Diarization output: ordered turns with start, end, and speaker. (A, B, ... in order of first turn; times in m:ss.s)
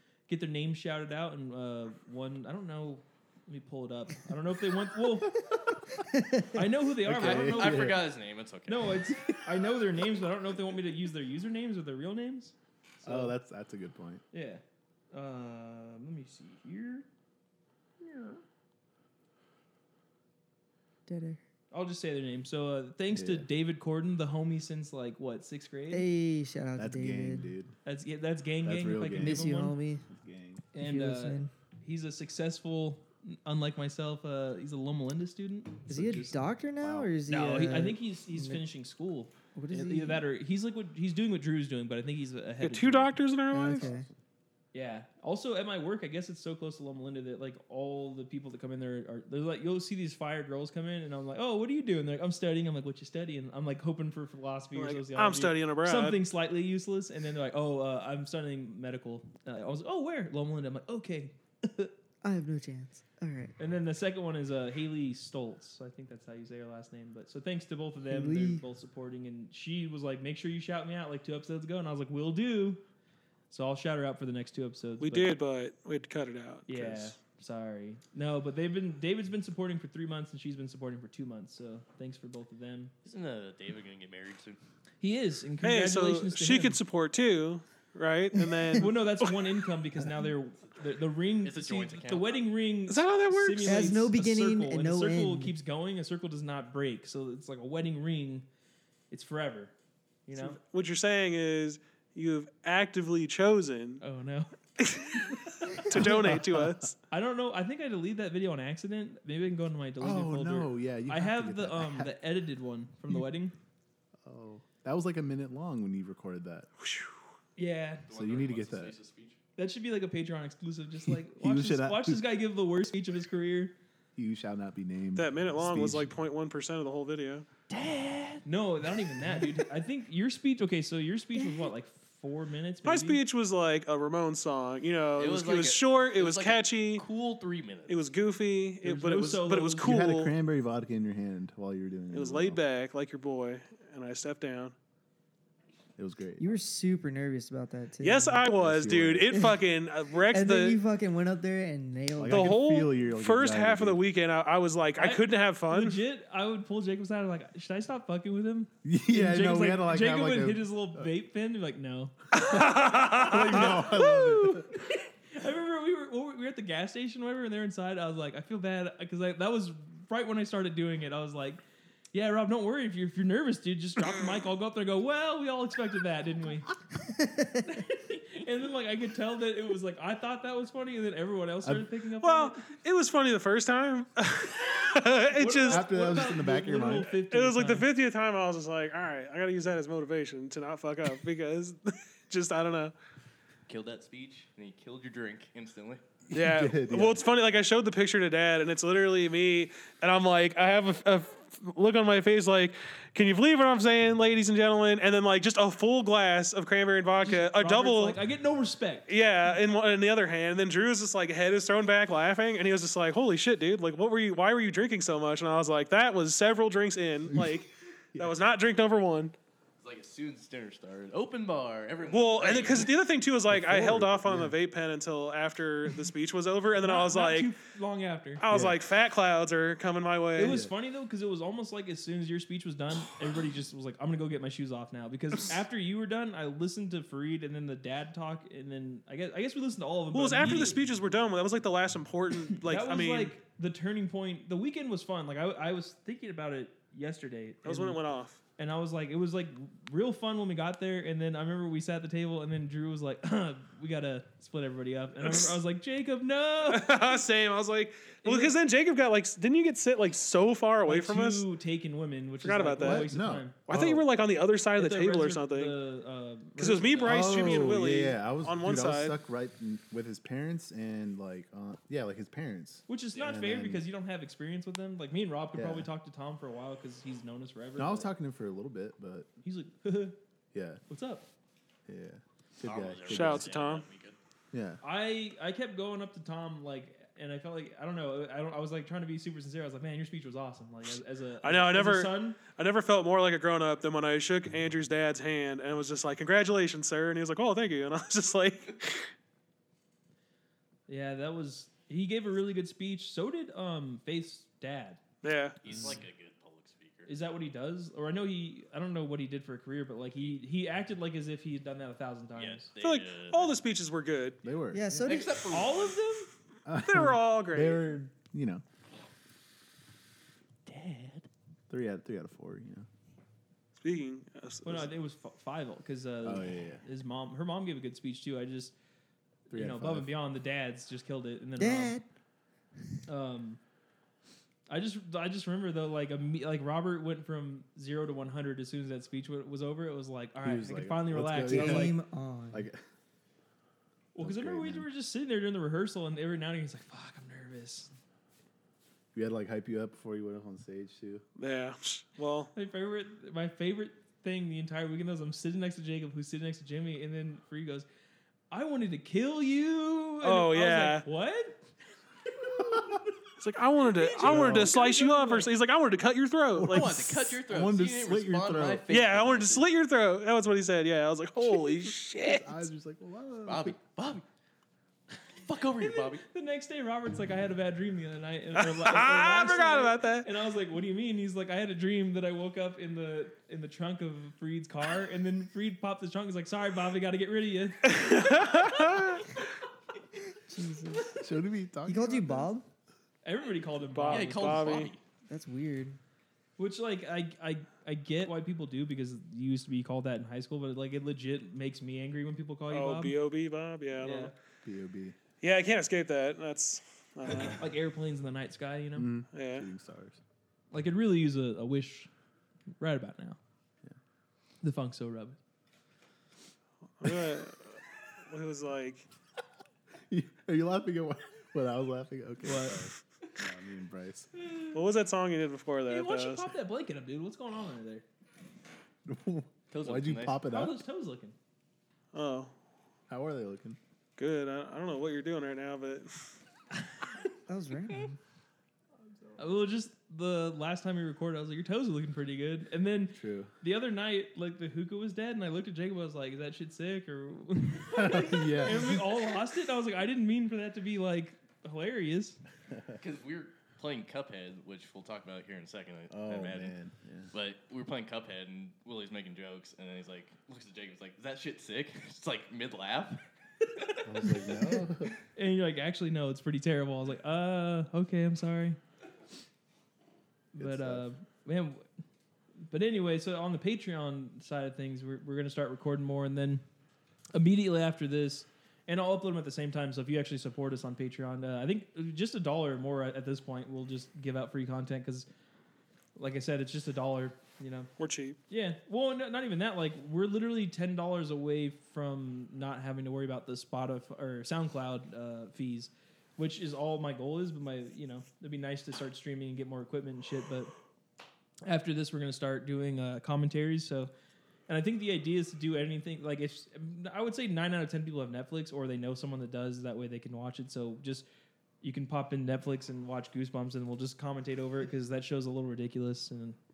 0:00.3-0:05.4 A
0:06.1-0:06.6 B
0:06.5-0:08.0 A
0:07.0-0:08.0 C
0:07.2-0:09.0 D
0:08.7-0:13.3 A
0:13.0-0:14.2 C
0:14.3-0:14.6 A
0:15.1-0:17.0 A
0:18.0-0:18.4 A
0:21.1-0:21.4 B
0:21.7-0:26.1 A
0:23.1-0:23.5 C
0:25.9-0:27.5 B
0:26.8-0:27.7 C
0:27.8-0:29.8 A
0:28.6-0:29.5 C
0:29.2-0:30.1 B
0:30.1-0:30.6 C
0:30.7-0:36.3 A
0:30.7-0:31.5 B
0:35.9-0:38.6 B
0:36.8-0:37.1 C
0:37.3-0:43.1 A
0:39.5-0:40.2 B
0:42.6-0:43.9 E
0:43.5-0:44.1 B
0:43.6-0:44.1 C
0:44.7-1:01.9 A
0:54.8-0:56.2 E
1:02.2-1:03.5 B
1:03.6-1:12.8 A
1:08.1-1:08.6 B
1:13.5-1:15.3 A
1:15.0-1:17.1 E
1:16.7-1:22.9 A
1:23.0-1:24.6 D
1:25.0-1:26.8 A
1:25.6-1:29.3 E
1:28.4-1:28.8 B
1:28.8-1:38.4 A
1:31.4-1:32.4 D
1:32.9-1:34.0 E
1:33.6-1:35.5 B
1:39.1-1:39.7 A
1:40.3-1:40.6 A
1:40.4-1:44.0 E
1:44.0-1:44.5 A
1:44.8-1:46.9 E
1:45.9-1:46.9 C
1:45.9-1:46.4 A
1:47.1-1:53.5 A
1:50.0-1:52.1 C
1:54.2-1:56.7 C
1:56.8-1:57.1 E
1:57.6-1:58.0 A
1:58.1-1:59.4 D
1:58.1-1:59.0 C
1:59.6-2:03.7 A
2:01.1-2:02.2 C
2:04.2-2:06.1 C
2:05.2-2:07.5 E
2:07.7-2:08.4 D
2:08.4-2:13.2 A
2:11.4-2:11.7 B
2:12.8-2:17.0 E
2:15.2-2:18.0 D
2:17.9-2:20.3 E
2:18.8-2:20.0 A
2:19.8-2:22.6 C
2:22.1-2:24.7 E
2:26.0-2:26.5 C
2:26.4-2:28.4 B
2:28.0-2:30.8 E
2:28.6-2:29.3 C
2:29.3-2:29.6 B
2:30.2-2:32.6 B
2:32.2-2:34.0 C
2:32.3-2:36.0 E
2:35.0-2:42.1 A
2:38.8-2:41.1 C
2:42.3-2:43.9 E
2:42.4-2:44.7 C
2:43.3-2:51.6 A
2:52.1-2:56.8 A
2:57.1-2:57.8 B
2:57.6-3:02.6 A
3:02.2-3:06.2 E
3:05.3-3:07.9 A
3:05.7-3:07.1 C
3:07.3-3:12.9 E
3:13.7-3:16.0 D
3:16.3-3:17.2 C
3:16.3-3:28.2 E
3:27.2-3:29.1 A
3:29.1-3:39.3 E
3:39.8-3:42.9 D
3:42.1-3:47.5 E
3:43.5-3:44.5 C
3:46.8-3:48.4 A
3:48.4-3:50.6 E
3:48.5-3:48.8 C
3:50.4-4:00.8 A
4:00.1-4:03.3 E
4:02.6-4:08.0 A
4:07.6-4:08.4 E
4:08.6-4:17.1 A
4:15.2-4:15.6 E
4:16.6-4:21.4 E
4:18.2-4:18.6 A
4:20.8-4:23.6 A
4:22.4-4:23.1 E
4:22.8-4:24.0 C
4:23.7-4:25.7 E
4:24.8-4:27.7 A
4:26.6-4:29.1 E
4:27.0-4:33.8 C
4:32.9-4:38.1 A
4:35.5-4:35.9 C
4:37.8-4:39.3 C
4:39.4-4:40.2 A
4:40.5-4:40.8 C
4:40.9-4:41.3 A
4:41.9-4:43.5 C
4:42.6-4:44.2 D
4:43.1-4:43.9 E
4:44.5-4:44.8 C
4:44.8-4:52.4 A
4:51.4-4:59.1 E
5:00.9-5:05.0 A
5:05.2-5:05.6 E
5:05.6-5:07.2 D
5:05.7-5:05.9 C
5:07.1-5:12.7 A
5:12.3-5:13.6 D
5:12.8-5:14.4 E
5:14.4-5:15.0 C
5:14.7-5:15.4 B
5:15.0-5:16.0 D
5:15.5-5:16.3 A
5:16.6-5:18.6 C
5:16.8-5:17.8 E
5:20.7-5:21.3 D
5:21.7-5:22.9 C
5:23.8-5:24.9 E
5:24.6-5:28.7 A
5:26.2-5:26.8 C
5:29.5-5:31.9 A
5:29.5-5:30.1 C
5:31.6-5:32.0 B
5:33.1-5:33.6 A
5:34.7-5:41.9 A
5:40.4-5:41.9 C
5:41.5-5:42.7 B
5:42.5-5:42.8 C
5:44.1-5:47.9 A
5:44.2-5:44.9 C
5:49.1-5:51.2 C
5:51.4-5:52.5 E
5:52.5-5:57.8 A
5:58.5-6:01.6 A
6:00.2-6:01.0 E
6:02.6-6:03.0 C
6:03.4-6:07.2 E
6:04.0-6:05.5 A
6:04.2-6:04.8 C
6:06.5-6:08.8 C
6:06.7-6:09.7 D
6:08.9-6:12.7 E
6:11.8-6:13.8 C
6:13.4-6:14.2 D
6:15.4-6:16.2 D
6:15.8-6:28.2 A
6:18.6-6:20.3 E
6:27.8-6:29.3 E
6:30.5-6:31.1 B
6:31.2-6:32.5 C
6:31.8-6:32.6 B
6:33.2-6:34.9 A
6:33.9-6:34.9 E
6:34.1-6:35.0 D
6:35.3-6:36.0 B
6:36.6-6:43.1 A
6:42.7-6:44.3 E
6:44.0-6:44.3 A
6:44.6-6:45.2 C
6:45.4-6:47.6 E
6:47.3-6:49.1 A
6:49.0-6:50.2 C
6:49.3-6:49.7 E
6:50.7-6:52.1 A
6:52.8-6:53.4 A
6:54.6-6:55.4 A
6:57.0-6:57.8 E
6:58.3-6:59.1 E
7:00.1-7:04.3 C
7:02.4-7:02.8 A
7:04.3-7:04.8 A
7:04.7-7:06.5 E
7:05.9-7:08.0 A
7:09.1-7:10.8 C
7:09.7-7:10.5 D
7:10.5-7:11.3 A
7:12.1-7:12.5 E
7:13.1-7:13.8 C
7:14.2-7:16.2 E
7:17.5-7:18.2 B
7:19.4-7:32.4 A
7:23.1-7:23.5 C
7:27.9-7:29.1 C
7:33.0-7:36.8 D
7:36.1-7:37.3 C
7:37.3-7:44.0 D
7:44.0-7:45.1 C
7:45.3-7:48.8 A
7:50.5-7:51.8 A
7:50.6-7:51.1 C
7:52.7-7:56.6 A
7:57.3-8:05.2 A
8:06.2-8:07.9 A
8:08.0-8:08.4 E
8:08.5-8:20.7 A
8:21.6-8:24.1 A
8:24.7-8:31.2 A
8:31.8-8:36.6 A